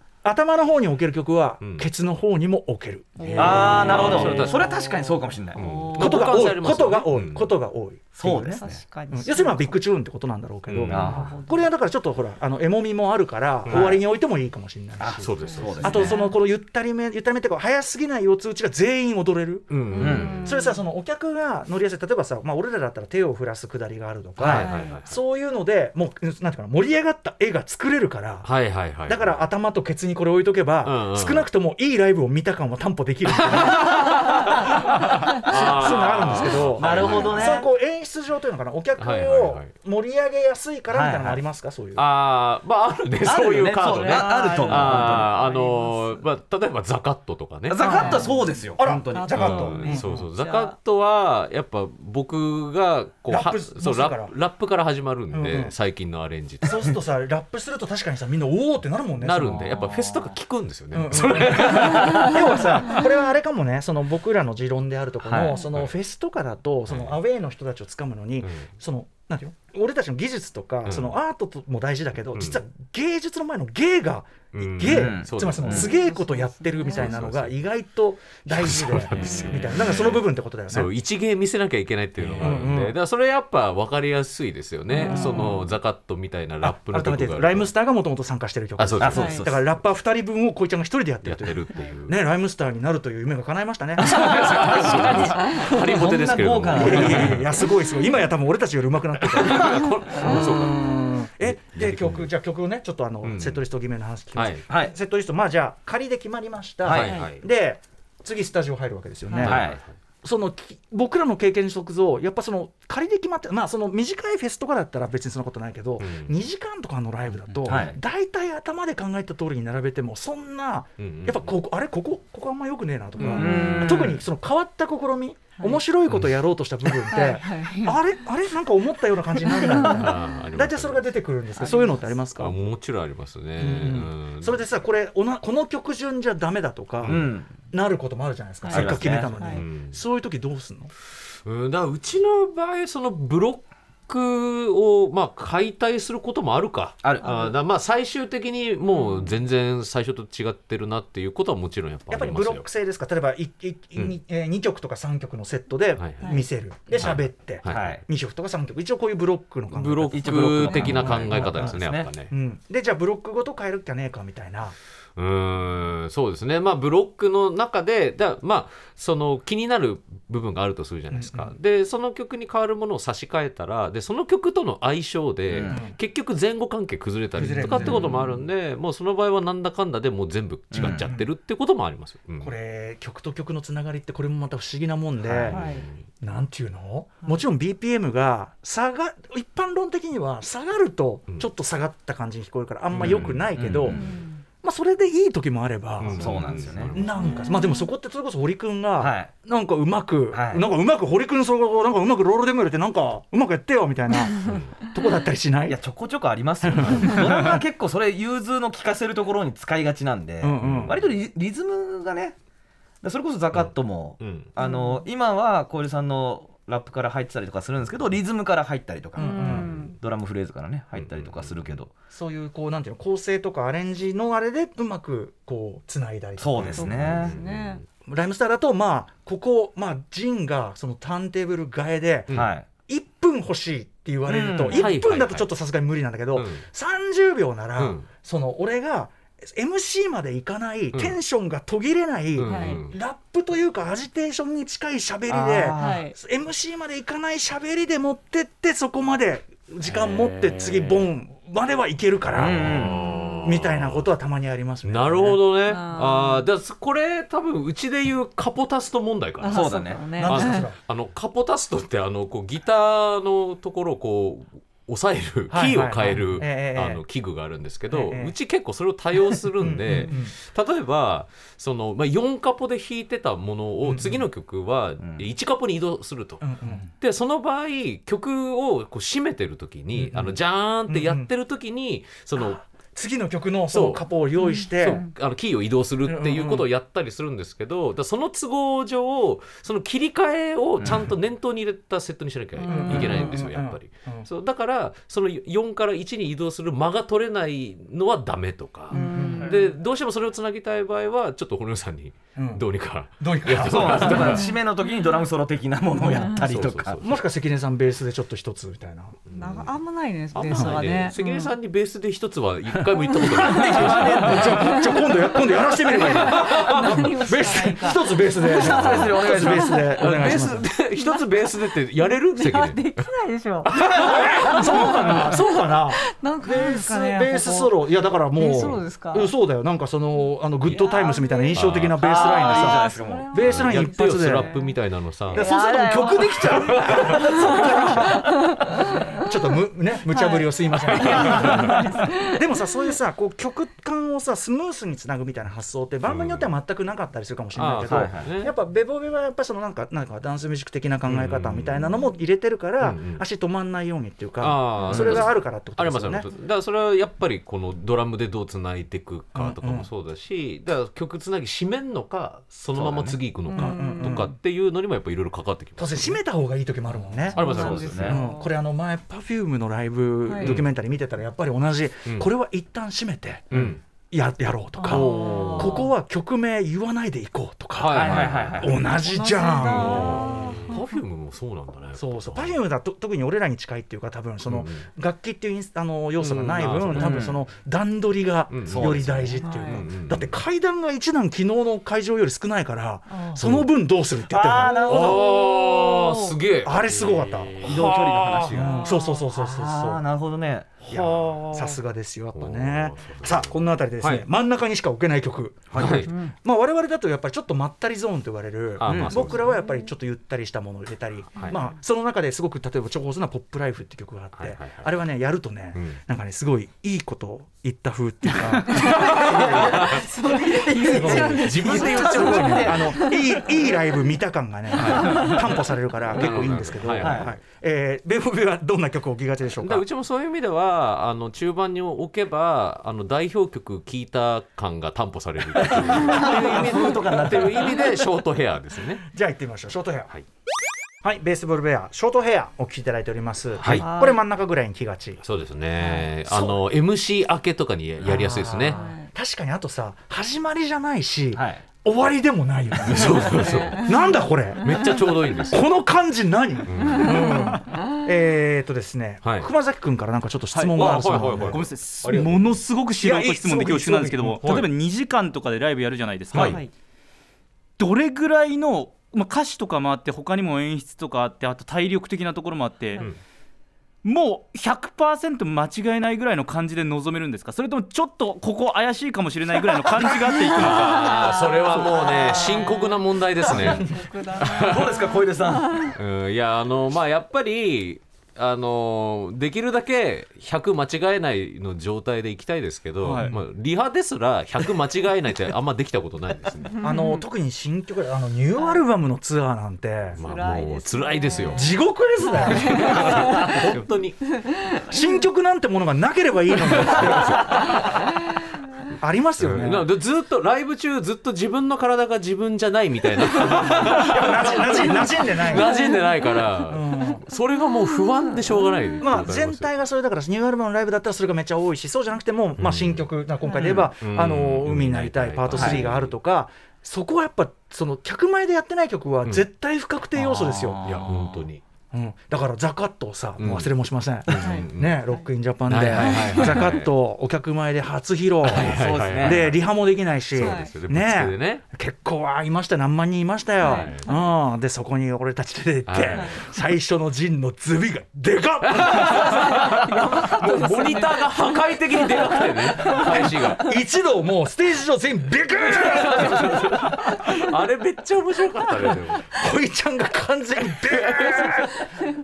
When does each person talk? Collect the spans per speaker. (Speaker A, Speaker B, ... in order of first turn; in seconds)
Speaker A: 0.2-4.0, 6.0-15.3, 15.8-19.8, 20.4-28.5, 29.1-34.2, 35.3-42.1, 48.8-50.2, 53.3-54.3, 55.3-55.7, 56.6-59.8, 60.9-80.9, 82.4-83.0, 85.1-85.7, 86.6-94.3, 96.8-109.7, 110.2-132.6, 133.6-140.9, 152.1-161.8, 162.3-164.8, 171.1-171.5, 175.7-176.0, 177.3-178.1, 180.8-181.3, 182.4-185.6, 186.2-194.0, 194.6-205.8, 206.6-207.6, 210.4-211.0, 219.2-219.7, 222.1-227.0, 228.1-232.3, 232.9-252.8, 253.4-255.4, 260.1-260.8, 265.5-267.0, 267.9-268.4, 269.6-270.3, 273.8-274.3, 276.4-276.9, 279.9-280.4, 280.9-281.3, 282.4-285.0, 286.1-286.7, 292.7-294.3, 298.9-299.6, 302.4-302.6, 303.2-304.2, 307.0-309.2, 310.5-310.8, 312.8-320.7, 323.7-334.5, 335.3-338.4, 339.2-356.3, 359.4-359.9, 363.5-364.3, 365.8-373.5, 374.1-380.7, 382.0-395.2, 396.6-397.7, 398.5-400.0, 400.9-419.9, 420.8-429.9, 439.1-440.1, 441.0-445.2, 446.3-446.6, 448.0-454.8, 455.5-461.7, 463.0-464.6, 496.8-500.2, 501.5-503.7, 504.9-507.7, 509.0-509.9, 513.5-515.7, 516.7-517.2, 519.0-530.8, 531.9-549.7, 550.3-550.8, 553.6-557.0, 559.3-561.8
Speaker B: 1.6-1.9, 3.2-4.8, 5.5-7.5, 10.7-11.2, 15.2-16.1, 19.7-20.5, 24.4-25.1, 28.4-29.5, 30.8-31.5, 33.5-37.5, 39.0-39.7, 42.0-48.1, 49.4-56.9, 59.2-62.4, 66.9-67.2, 70.8-71.2, 74.5-76.0, 76.9-77.6, 78.5-87.7, 88.8-89.3, 91.2-92.2, 94.0-97.5, 99.2-100.9, 101.4-102.3, 103.2-103.6, 104.3-104.6, 106.9-107.4, 109.4-109.9, 116.0-116.3, 121.0-121.5, 123.2-124.2, 126.1-126.4, 129.7-131.2, 132.4-134.6, 138.8-140.0, 141.4-152.7, 156.0-156.4, 157.0-158.0, 159.7-162.3, 165.2-182.6, 185.5-185.9, 193.0-194.0, 196.0-197.5, 204.4-204.7, 210.6-211.0, 213.5-214.5, 219.5-219.9, 220.9-221.7, 226.8-227.8, 234.7-235.5, 236.3-236.7, 237.8-238.1, 242.4-242.9, 249.9-251.1, 252.3-254.1, 254.8-282.6, 283.7-284.0, 284.8-304.5, 306.3-307.2, 309.3-309.8, 310.3-314.8, 316.3-317.1, 318.6-319.3, 320.0-323.1, 331.5-332.0, 333.5-335.5, 346.1-346.5, 347.6-348.5, 351.1-351.9, 352.8-353.2, 354.4-366.2, 367.4-368.2, 370.4-370.7, 373.5-373.8, 374.9-375.7, 377.8-378.8, 379.6-382.6, 384.5-384.9, 386.2-387.3, 388.5-390.4, 393.4-393.7, 394.9-398.8, 401.1-401.8, 402.4-404.2, 405.8-406.1, 408.8-409.5, 414.4-414.9, 418.7-420.1, 421.0-422.9, 424.8-425.4, 426.1-427.4, 429.6-439.1, 445.2-448.8, 452.9-453.9, 454.6-455.7, 456.7-457.5, 459.2-459.5, 460.8-462.6, 464.4-464.7, 466.3-466.6, 480.5-484.9, 485.9-496.8, 500.2-501.7, 502.5-504.2, 506.9-507.6, 509.4-519.7, 522.6-526.1, 530.8-531.6, 533.4-533.7, 534.3-535.0, 535.7-536.9, 538.4-541.6, 543.6-544.0, 545.9-546.4, 548.7-553.7, 555.6-559.4, 560.8-561.8
Speaker C: 3.2-6.3, 8.5-9.8, 11.1-11.7, 15.4-16.4, 19.9-20.8, 24.5-25.0, 36.9-37.6, 43.8-46.2, 47.8-48.4, 49.1-50.8, 61.9-62.4, 75.8-77.2, 79.2-79.7, 84.9-85.6, 89.1-89.4, 95.2-95.7, 100.2-100.7, 123.2-123.6, 127.1-128.0, 129.4-130.2, 131.6-132.2, 138.7-139.6, 148.9-149.3, 156.2-156.5, 160.7-161.0, 177.8-178.1, 185.5-185.9, 194.0-194.4, 197.2-197.9, 214.6-215.0, 219.2-219.9, 226.8-227.8, 242.5-242.9, 245.8-246.2, 255.7-256.5, 259.4-260.7, 284.4-284.9, 292.6-293.4, 298.9-299.8, 304.2-304.6, 309.3-311.6, 313.2-320.4, 321.0-329.3, 330.7-331.6, 332.2-334.8, 335.3-339.4, 340.1-342.9, 363.5-364.3, 367.3-368.5, 370.3-370.6, 374.8-375.9, 378.8-381.0, 389.4-389.8, 393.1-393.4, 394.7-396.4, 398.6-399.3, 409.4-409.9, 411.4-411.7, 418.4-423.7, 424.9-425.4, 443.8-444.2, 445.8-446.1, 448.7-449.1, 453.2-454.2, 456.8-457.9, 480.7-485.9, 496.8-497.2, 500.2-503.7, 504.3-505.1, 507.1-507.8, 513.4-513.8, 515.0-516.4, 518.1-519.2, 523.4-523.8, 534.4-535.3, 536.0-536.6, 540.4-540.7, 543.6-544.3, 546.1-546.4, 549.2-553.7, 556.9-557.4
Speaker D: 3.4-6.2, 8.2-8.8, 10.9-11.3, 13.7-14.0, 15.0-16.2, 20.0-20.4, 24.4-24.7, 36.8-37.7, 40.9-41.4, 43.2-45.3, 47.7-49.7, 65.2-65.6, 74.8-75.9, 82.2-82.6, 89.0-89.7, 94.3-97.5, 104.7-104.9, 106.8-107.2, 109.4-109.8, 117.7-118.0, 123.3-124.2, 137.1-137.5, 138.7-139.4, 147.0-147.5, 157.7-158.0, 160.1-162.1, 175.5-175.8, 177.7-178.2, 180.7-181.1, 185.2-185.7, 192.9-194.2, 196.2-196.9, 199.0-199.3, 200.3-200.7, 205.7-212.4, 213.0-221.9, 226.4-227.4, 232.3-232.7, 234.3-234.8, 245.3-246.1, 252.3-253.1, 259.5-260.0, 290.8-291.1, 303.5-307.0, 318.5-319.8, 323.7-324.9, 332.0-333.3, 347.9-348.3, 354.9-355.3, 362.7-363.2, 367.4-368.2, 373.5-373.8, 374.9-375.7, 377.9-378.8, 386.9-387.4, 388.7-389.3, 394.3-395.3, 397.6-401.3, 405.7-406.0, 408.9-409.3, 419.0-423.0, 427.0-427.3, 435.6-437.9, 451.3-451.6, 460.8-461.2, 484.4-485.9, 525.5-525.9, 538.5-539.5
Speaker E: 460.5-466.6, 467.8-473.0, 474.0-481.3, 493.0-493.4, 530.2-531.5